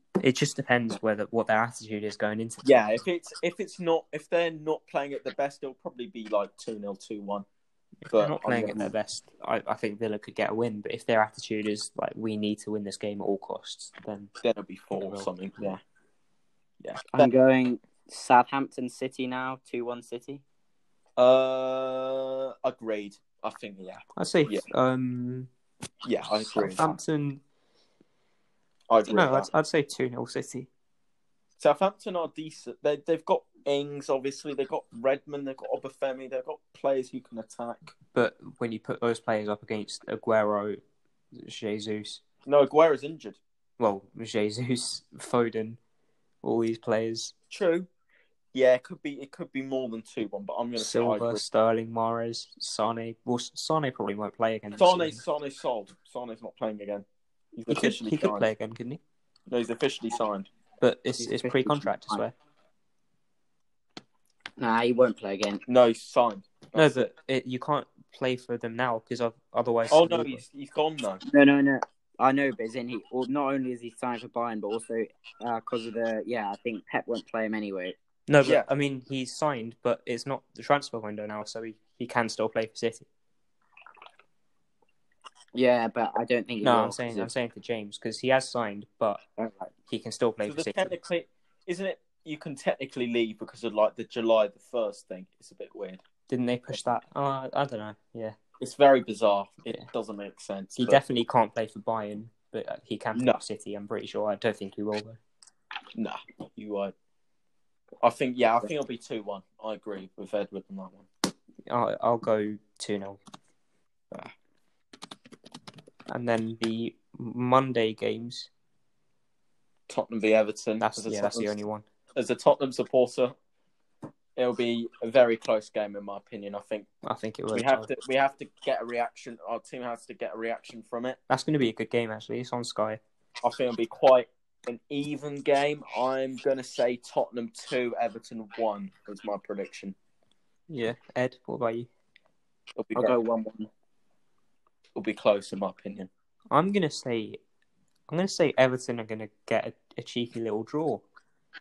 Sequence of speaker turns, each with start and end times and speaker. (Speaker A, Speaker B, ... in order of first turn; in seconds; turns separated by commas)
Speaker A: 0.2-3.0, Speaker B: 2.6-7.5, Speaker A: 8.1-14.3, Speaker B: 8.1-8.9, Speaker B: 14.4-15.8, Speaker A: 15.0-15.8, Speaker B: 16.8-17.3, Speaker C: 17.1-20.4, Speaker B: 21.2-24.6, Speaker A: 24.1-25.5, Speaker B: 26.0-27.0, Speaker A: 26.5-27.4, Speaker B: 28.9-29.5, Speaker A: 29.1-30.7, Speaker B: 31.6-37.9, Speaker A: 38.1-40.8, Speaker A: 41.3-42.2, Speaker B: 42.5-43.4, Speaker A: 43.8-45.8, Speaker A: 46.4-47.3, Speaker B: 47.5-47.9, Speaker B: 48.5-51.4, Speaker A: 50.8-55.2, Speaker B: 54.8-58.5, Speaker A: 57.7-59.0, Speaker B: 59.5-60.5, Speaker A: 60.8-62.3, Speaker C: 61.2-62.2, Speaker C: 64.6-65.6, Speaker B: 65.7-67.1, Speaker A: 66.7-70.4, Speaker B: 69.9-71.2, Speaker C: 71.2-78.0, Speaker A: 78.3-83.1, Speaker C: 85.5-87.3, Speaker A: 86.6-89.2, Speaker C: 89.4-89.7, Speaker A: 89.9-91.0, Speaker B: 90.4-96.0, Speaker A: 96.3-98.3, Speaker B: 98.6-101.0, Speaker A: 100.8-105.2, Speaker B: 103.1-103.4, Speaker B: 105.9-106.9, Speaker B: 108.0-111.1, Speaker A: 111.7-113.2, Speaker A: 116.1-118.5, Speaker B: 119.9-121.5, Speaker A: 120.8-121.8, Speaker B: 122.1-123.3, Speaker B: 124.3-126.9, Speaker A: 127.0-127.9, Speaker B: 127.5-131.2, Speaker A: 131.3-133.0, Speaker B: 133.4-139.9, Speaker A: 140.7-141.9, Speaker B: 142.8-143.2, Speaker C: 142.9-143.7, Speaker B: 144.9-146.1, Speaker A: 146.5-147.4, Speaker A: 148.1-151.0